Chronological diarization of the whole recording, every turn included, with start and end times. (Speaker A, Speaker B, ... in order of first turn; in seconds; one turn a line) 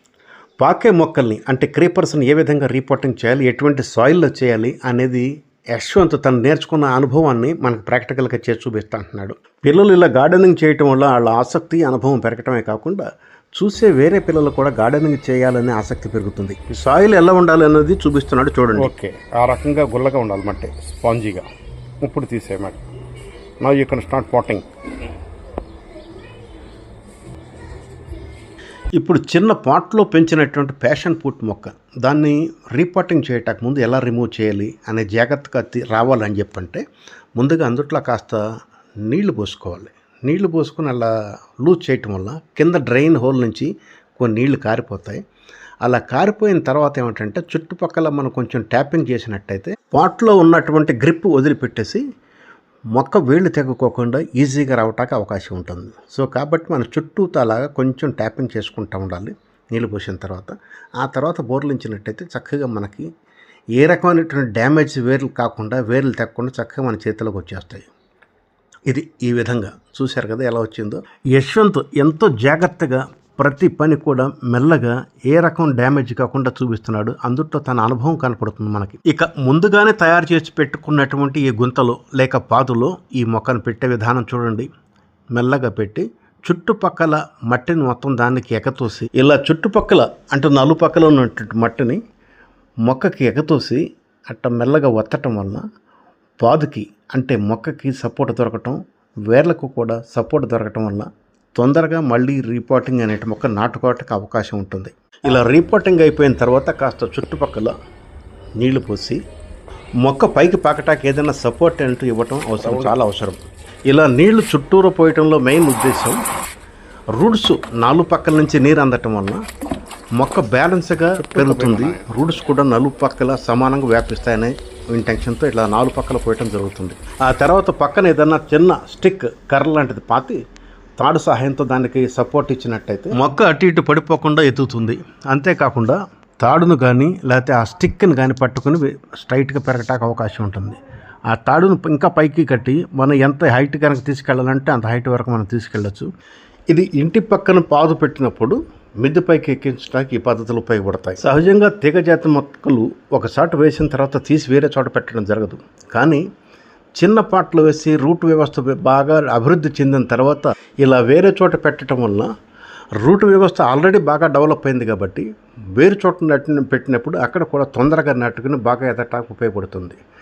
Speaker A: 0.6-13.0
Speaker A: 13.6-18.9
Speaker B: 18.9-21.4
Speaker B: 22.0-22.8
Speaker B: 23.6-24.6
Speaker A: 29.0-36.8
Speaker A: 37.4-38.4
Speaker A: 39.1-41.1
Speaker A: 41.6-45.2
Speaker A: 45.8-52.0
Speaker A: 52.9-63.1
Speaker A: 63.8-67.9
Speaker A: 68.9-84.7
Speaker A: 85.3-92.0
Speaker A: 92.8-95.6
Speaker A: 96.4-107.7
Speaker A: 108.6-109.2
Speaker A: 110.0-116.2
Speaker B: 112.6-112.9
Speaker A: 117.1-119.4
Speaker A: 120.2-130.4
Speaker B: 121.2-122.0
Speaker A: 131.0-140.8
Speaker A: 141.3-146.1
Speaker A: 146.7-156.2
Speaker A: 157.0-162.3
Speaker A: 163.0-170.0